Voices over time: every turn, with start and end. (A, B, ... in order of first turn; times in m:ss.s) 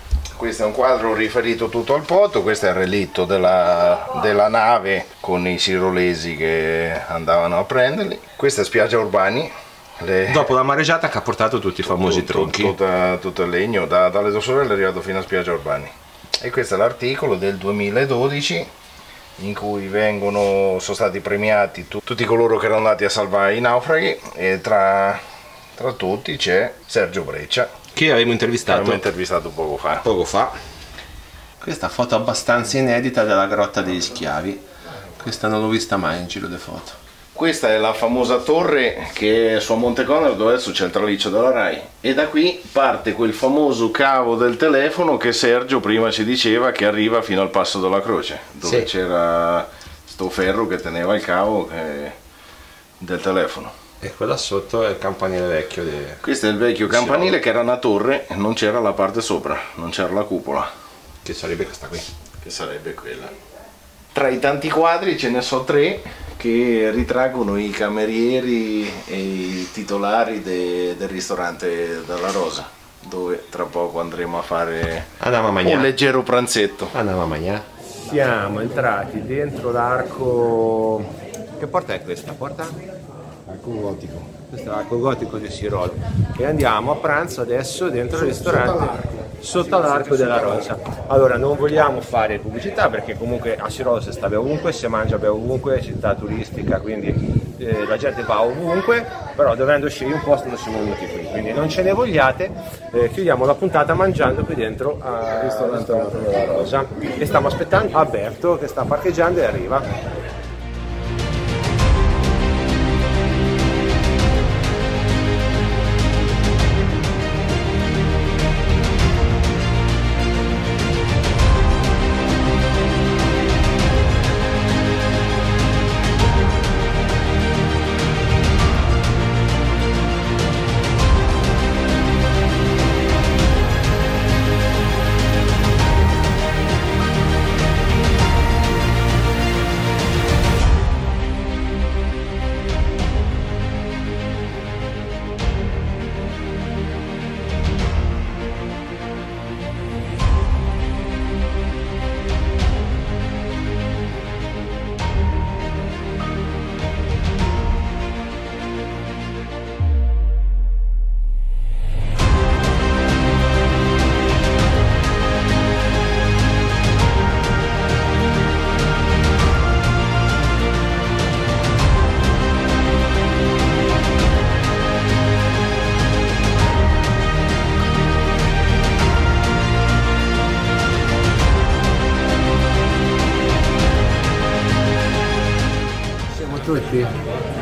0:00.4-0:10.5 A
0:10.3-0:12.8 B
0:11.8-0:18.7 A
0:19.4-0:25.2 A
0:25.8-0:27.7 A
0:27.9-0:29.0 B
0:28.7-0:30.1 A
0:30.0-0:30.5 B
0:31.6-0:34.6 B
0:35.2-0:37.0 B
0:37.4-0:52.2 A
0:53.0-0:53.7 A
0:54.0-0:56.2 B
0:56.2-1:00.7 A
0:56.9-0:57.4 B
1:01.2-1:02.1 B
1:02.4-1:03.3 A
1:04.1-1:15.1 A
1:15.2-1:15.9 B
1:15.6-1:16.9 A
1:16.9-1:22.8 B
1:23.6-1:24.3 A
1:24.3-1:49.9 B
1:28.3-1:29.0 A
1:45.3-1:46.7 A
3:06.3-3:07.1 B